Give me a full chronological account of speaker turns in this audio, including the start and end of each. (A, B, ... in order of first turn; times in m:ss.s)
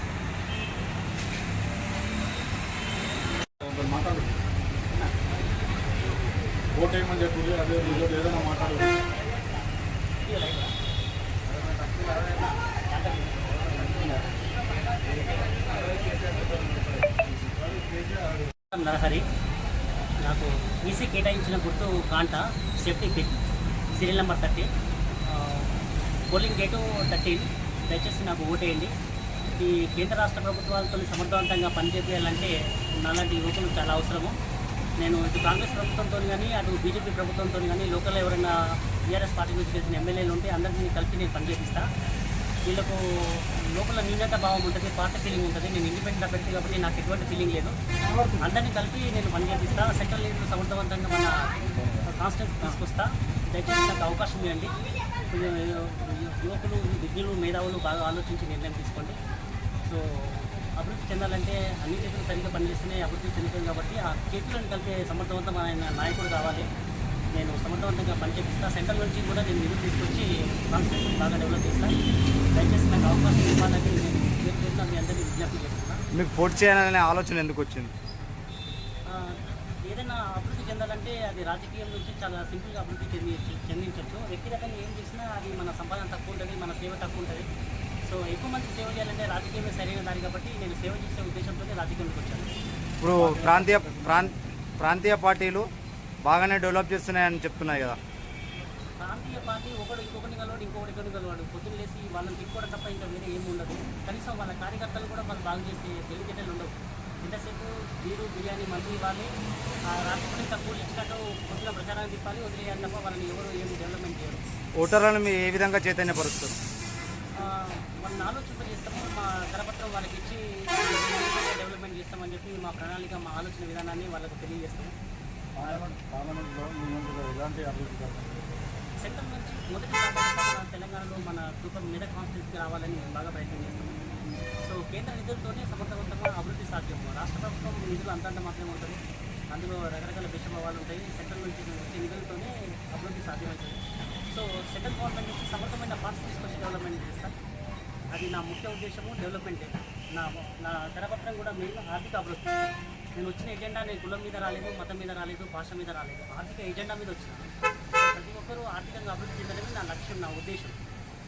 0:03.6-0:04.4 A
0:06.7-0:09.0 A
0:10.2-0:10.7 B
0:11.9-0:14.2 B
0:16.0-0:18.4 A
0:18.7-0:19.2 B
0:20.2-0:23.4 B
0:23.9-0:24.7 B
0:25.3-0:25.7 B
0:26.3-0:28.9 B
0:29.5-0:34.4 B
0:35.0-0:41.9 B
0:42.6-0:47.7 B
0:48.0-0:48.5 A
0:48.4-0:54.7 B
0:51.7-0:52.0 A
0:55.3-0:59.2 B
0:59.8-1:06.7 B
1:07.3-1:11.9 B
1:12.5-1:16.0 B
1:16.1-1:17.9 C
1:19.1-1:27.5 B
1:28.0-1:32.5 B
1:33.0-1:35.7 C
1:33.1-1:34.3 A
1:36.2-1:38.0 C
1:39.0-1:49.3 B
1:49.9-1:54.4 B
1:54.8-1:56.5 C
1:57.4-2:04.9 B
2:05.6-2:08.5 A
2:09.0-2:14.0 B
2:14.6-2:19.0 B
2:19.5-2:27.3 B
2:28.1-2:32.6 B
2:33.2-2:37.4 B
2:38.0-2:40.8 B